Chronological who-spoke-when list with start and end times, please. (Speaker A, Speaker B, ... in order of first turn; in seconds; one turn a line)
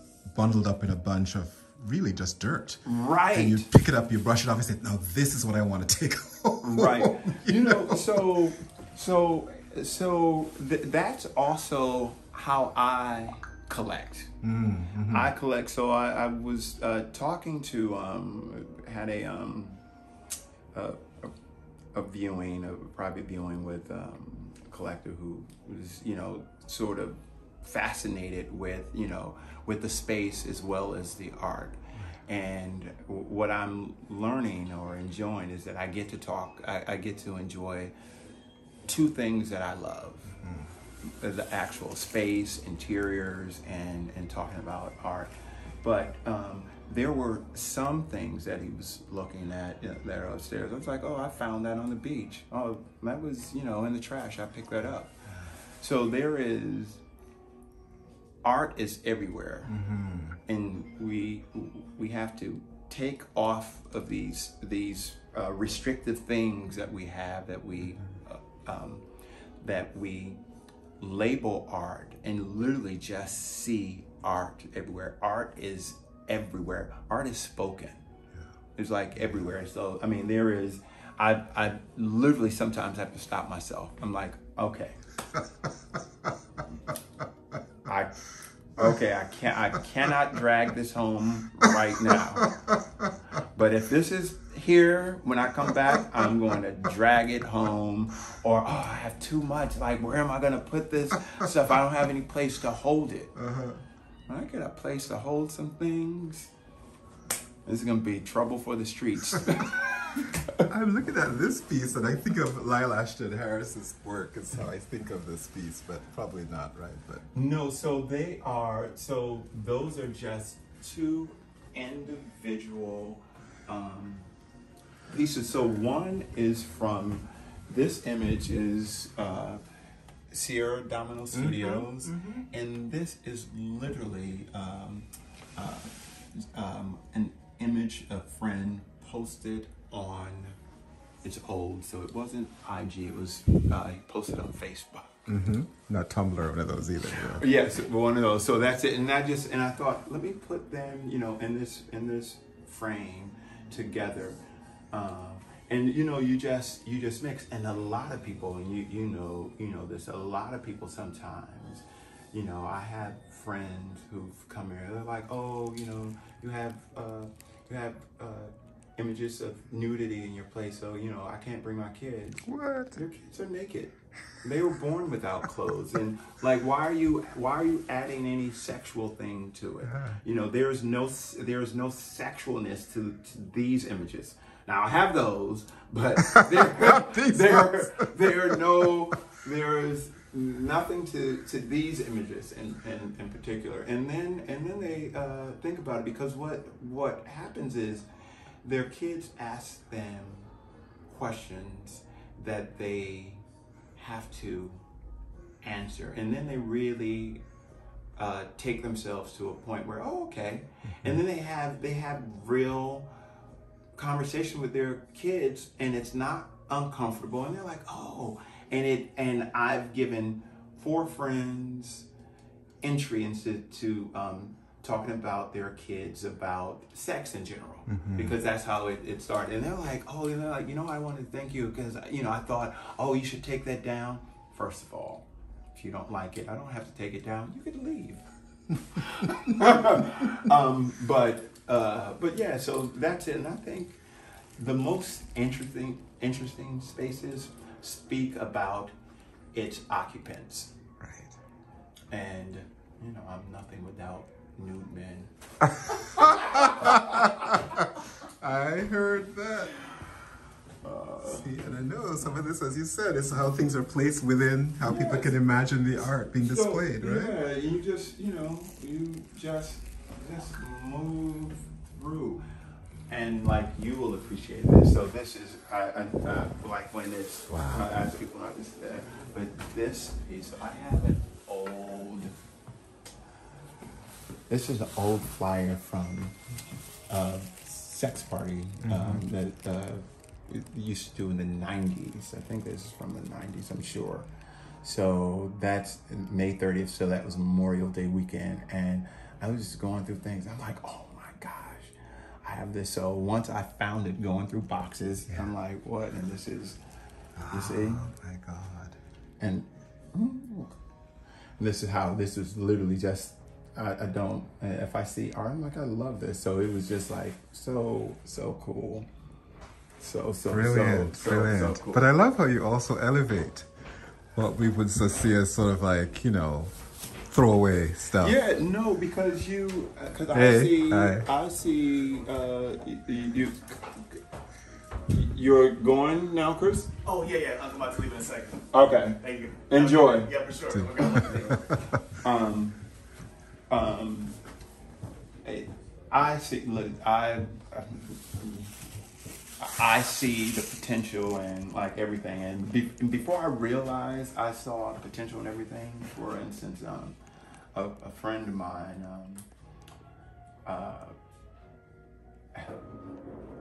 Speaker A: 0.3-8.2
Speaker B: 2.8-3.7
Speaker B: 6.6-14.3
Speaker A: 14.4-15.3
Speaker B: 15.1-19.8
Speaker B: 20.7-21.3
Speaker B: 21.9-37.9
Speaker B: 38.9-40.4
Speaker A: 40.4-40.7
Speaker B: 41.0-45.3
Speaker B: 45.8-55.2
Speaker B: 55.8-57.0
Speaker B: 58.4-59.8
Speaker A: 59.7-60.4
Speaker B: 60.4-69.0
Speaker B: 69.6-70.4
Speaker B: 71.0-78.0
Speaker B: 78.8-85.0
Speaker B: 87.8-88.2
Speaker B: 88.8-92.5
Speaker A: 91.7-93.1
Speaker B: 93.5-103.3
Speaker A: 103.3-103.8
Speaker B: 104.3-106.5
Speaker B: 107.7-110.7
Speaker A: 110.7-117.2
Speaker B: 117.3-124.3
Speaker B: 125.1-129.6
Speaker B: 130.3-140.6
Speaker A: 131.3-132.4
Speaker B: 141.2-145.2
Speaker A: 145.3-147.4
Speaker B: 147.1-154.4
Speaker B: 154.9-198.1
Speaker A: 172.5-173.0
Speaker A: 179.9-180.2
Speaker A: 186.2-188.6
Speaker B: 198.6-200.5
Speaker B: 201.1-203.4
Speaker B: 203.9-204.8
Speaker B: 205.6-207.4
Speaker B: 208.2-213.1
Speaker B: 213.9-222.1
Speaker B: 222.8-238.2
Speaker A: 227.9-228.3
Speaker B: 238.9-244.0
Speaker B: 244.6-248.9
Speaker B: 249.5-250.7
Speaker A: 251.0-251.3
Speaker B: 252.1-255.3
Speaker A: 255.7-259.8
Speaker B: 255.9-257.7
Speaker B: 260.8-261.5
Speaker A: 261.2-267.4
Speaker B: 264.8-265.3
Speaker B: 266.3-272.4
Speaker B: 273.1-282.4
Speaker A: 277.5-277.9
Speaker B: 284.5-286.4
Speaker B: 287.1-294.3
Speaker A: 288.8-289.2
Speaker B: 294.8-306.8
Speaker A: 307.4-309.0
Speaker B: 307.5-308.1
Speaker B: 309.4-310.8
Speaker B: 311.6-319.1
Speaker B: 320.0-322.1
Speaker A: 320.5-323.7
Speaker A: 324.3-326.7
Speaker A: 327.3-328.4
Speaker B: 328.2-334.2
Speaker A: 330.3-331.3
Speaker B: 335.1-337.1
Speaker C: 337.1-338.6
Speaker B: 338.5-342.8
Speaker C: 339.2-341.6
Speaker A: 340.7-342.0
Speaker B: 343.7-344.4
Speaker B: 345.4-348.7
Speaker B: 349.6-357.2
Speaker B: 357.7-359.4
Speaker B: 360.6-361.1
Speaker B: 362.5-362.8